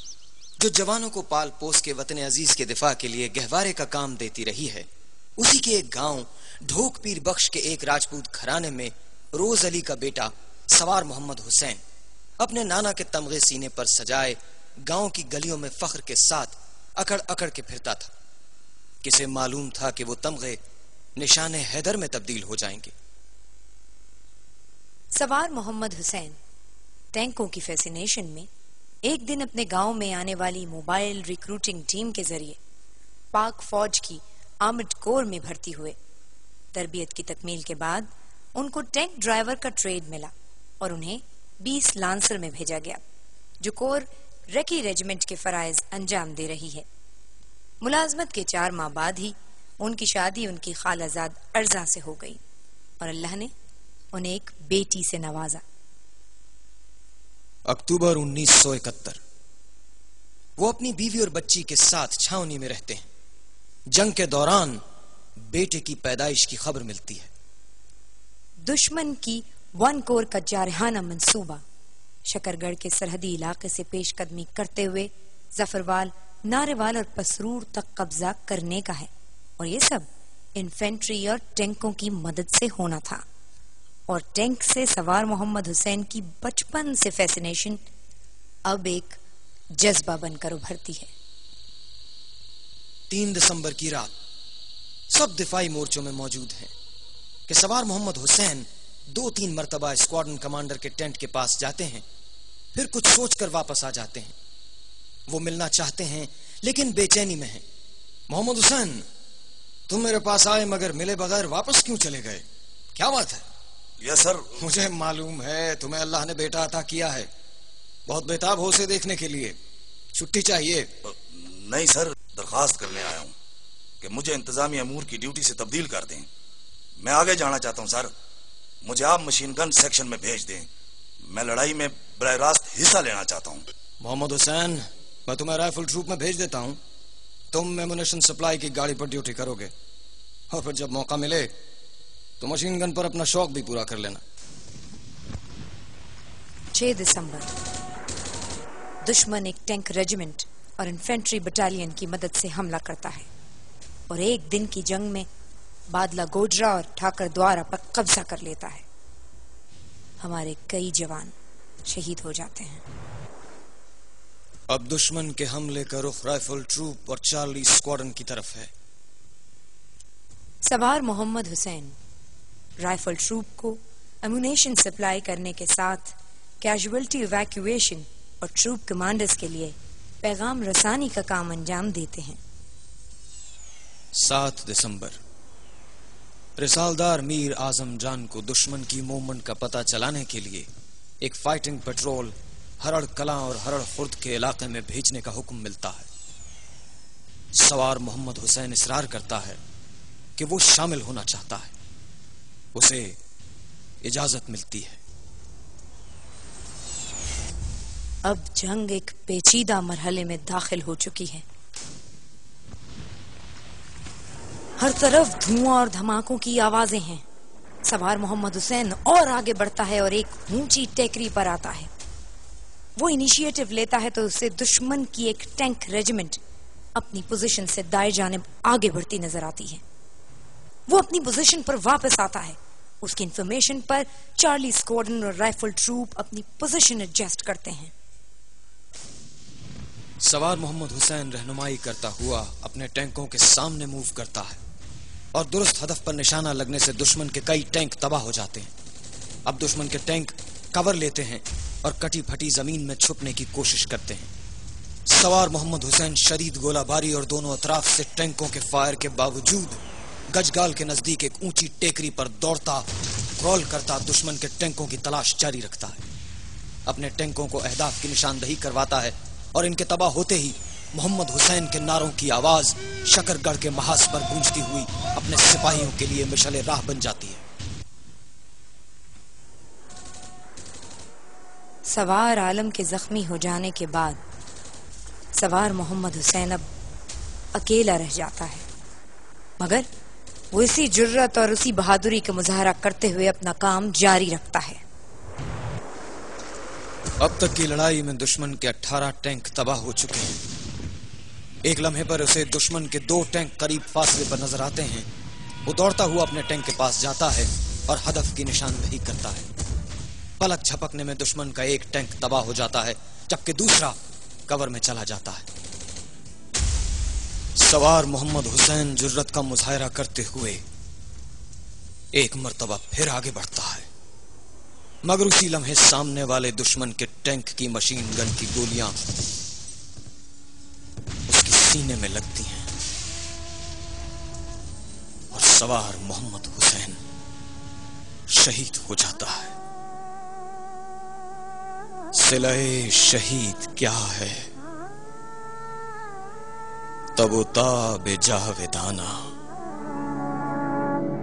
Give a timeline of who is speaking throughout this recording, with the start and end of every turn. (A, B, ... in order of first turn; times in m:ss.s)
0:00.6-0:11.8 A
0:12.4-0:18.1 A
0:19.0-0:20.6 A
0:21.2-0:22.9 A
0:25.1-0:26.4 B
0:27.1-0:28.5 B
0:29.0-0:32.6 B
0:33.3-0:36.0 B
0:36.7-0:43.0 B
0:43.6-0:46.9 B
0:47.8-0:52.4 B
0:53.0-0:53.5 B
0:54.1-0:55.6 B
0:57.7-0:59.2 A
1:00.6-1:03.1 A
1:03.9-1:04.8 A
1:05.4-1:07.3 A
1:08.6-1:11.6 B
1:12.2-1:23.2 B
1:24.1-1:27.8 B
1:28.6-1:29.2 B
1:29.8-1:31.1 B
1:33.1-1:34.1 A
1:35.1-1:36.7 A
1:37.5-1:42.0 A
1:42.7-1:44.3 A
1:45.3-1:47.6 A
1:48.3-1:49.0 A
1:49.9-1:53.4 A
1:54.0-1:54.5 C
1:54.6-1:57.3 A
1:58.1-1:59.6 A
2:00.1-2:00.9 A
2:01.1-2:03.3 C
2:04.0-2:06.3 C
2:07.0-2:08.1 C
2:08.8-2:10.7 C
2:11.2-2:13.7 C
2:14.0-2:16.8 A
2:17.5-2:19.7 A
2:20.5-2:21.5 A
2:22.4-2:24.2 A
2:26.7-2:27.5 B
2:29.0-2:33.3 B
2:34.1-2:35.3 B
2:35.9-2:38.8 B
2:40.2-2:41.3 B
2:41.8-2:42.8 B
2:44.7-2:48.7 A
2:50.6-2:52.0 B
2:52.8-3:02.4 B
3:04.2-3:05.2 A
3:06.6-3:10.7 A
3:11.2-3:16.1 A
3:17.5-3:19.6 A
3:20.4-3:21.7 A
3:22.7-3:23.2 A
3:24.0-3:25.0 A
3:28.2-3:31.4 B
3:34.8-3:37.2 B
3:37.8-3:41.9 B
3:43.0-3:46.4 B
3:46.9-3:49.8 B
3:50.9-3:57.9 B
4:00.2-4:04.6 A
4:05.3-4:08.7 A
4:09.4-4:14.3 A
4:15.1-4:22.9 A
4:23.4-4:26.0 A
4:26.9-4:37.4 A
4:41.8-4:44.2 B
4:45.4-4:46.6 B
4:47.5-4:48.6 B
4:49.6-4:49.8 B
4:50.5-4:54.8 B
4:57.2-5:00.4 A
5:01.6-5:05.1 A
5:05.6-5:09.5 A
5:10.4-5:15.5 A
5:17.6-5:20.6 A
5:22.1-5:23.9 A
5:25.0-5:29.0 A
5:31.3-5:32.7 A
5:35.3-5:37.0 A
5:38.3-5:39.6 A
5:42.1-5:44.5 A
5:47.1-5:49.3 A